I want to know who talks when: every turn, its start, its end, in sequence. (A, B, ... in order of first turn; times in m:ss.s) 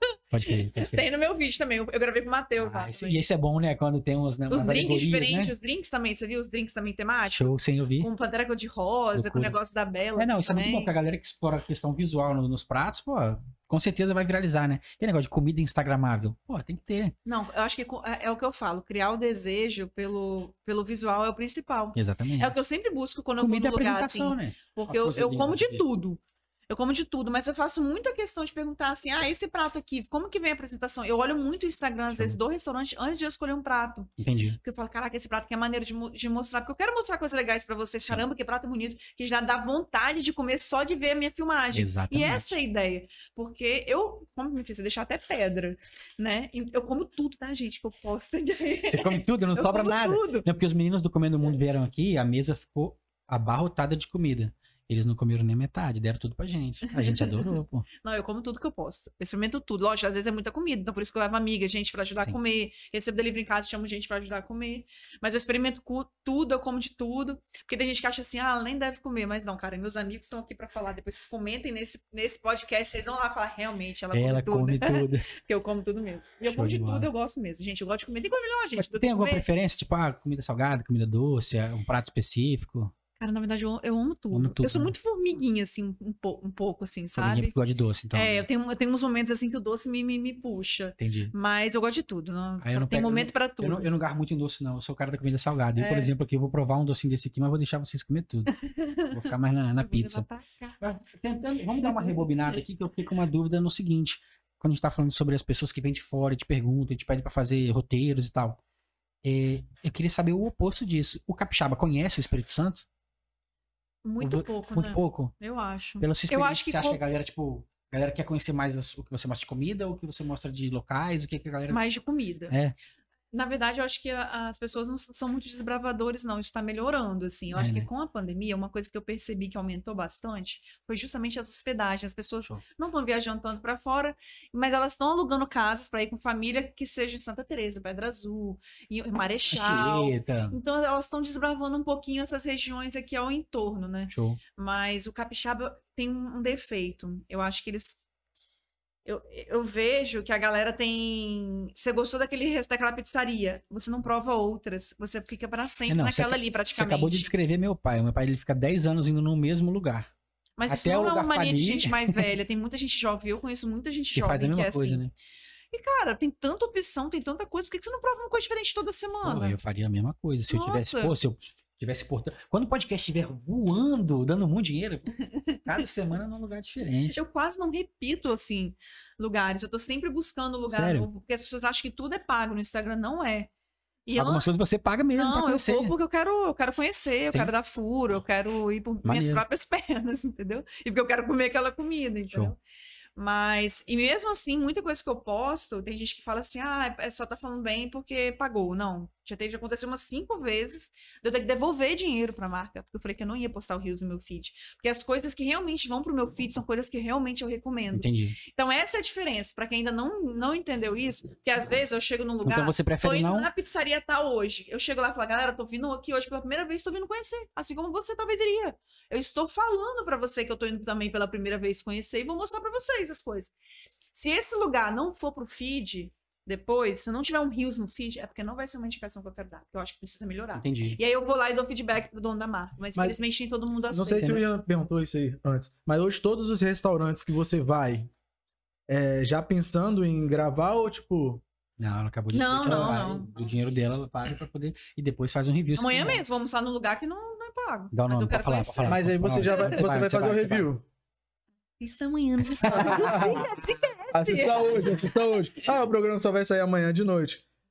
0:00.3-0:01.1 A
0:00.4-0:03.2 B
0:02.6-0:05.5 A
0:04.5-0:10.9 B
0:07.3-0:08.1 A
0:09.2-0:09.6 A
0:10.2-0:17.2 A
0:17.3-0:50.5 B
0:22.0-0:22.6 A
0:23.4-0:25.8 A
0:32.1-0:32.4 A
0:34.2-0:34.6 A
0:41.7-0:42.5 A
0:48.9-0:57.9 A
0:56.9-1:19.5 B
1:14.1-1:15.3 A
1:16.5-1:17.1 A
1:18.8-1:22.9 A
1:23.2-1:27.6 B
1:24.3-1:24.9 A
1:27.2-1:28.5 A
1:28.1-1:33.9 B
1:31.0-1:31.3 A
1:32.6-1:38.6 A
1:35.8-1:36.1 B
1:38.5-1:40.8 B
1:39.1-1:40.3 A
1:40.8-1:48.6 A
1:41.8-1:42.2 B
1:49.2-1:52.8 A
1:54.0-1:57.0 B
1:54.2-1:55.4 A
1:56.0-2:01.8 A
2:01.7-2:02.6 B
2:02.5-2:02.8 A
2:03.3-2:28.0 B
2:07.5-2:07.9 A
2:19.5-2:20.6 A
2:24.1-2:24.4 A
2:29.0-2:37.3 B
2:35.9-2:40.1 A
2:40.6-2:45.0 B
2:40.7-2:42.3 A
2:44.1-2:45.1 A
2:45.7-2:49.6 B
2:49.2-2:55.1 A
2:50.5-2:51.2 B
2:55.3-2:55.6 B
2:55.7-2:57.2 A
2:57.1-3:03.5 B
3:00.7-3:01.1 A
3:04.1-3:04.5 B
3:04.2-3:05.9 A
3:05.2-3:12.6 B
3:09.0-3:09.4 A
3:13.2-3:43.5 B
3:27.9-3:28.4 A
3:32.4-3:33.5 A
3:44.1-3:54.4 B
3:50.5-3:51.0 A
3:53.9-3:58.1 C
3:54.0-3:54.4 A
3:58.9-4:01.4 C
4:01.8-4:06.2 A
4:02.3-4:03.3 B
4:02.7-4:03.0 C
4:05.8-4:09.8 B
4:07.9-4:10.7 A
4:08.9-4:10.8 C
4:11.8-4:15.1 B
4:12.6-4:13.5 A
4:12.6-4:13.5 C
4:14.1-4:17.4 C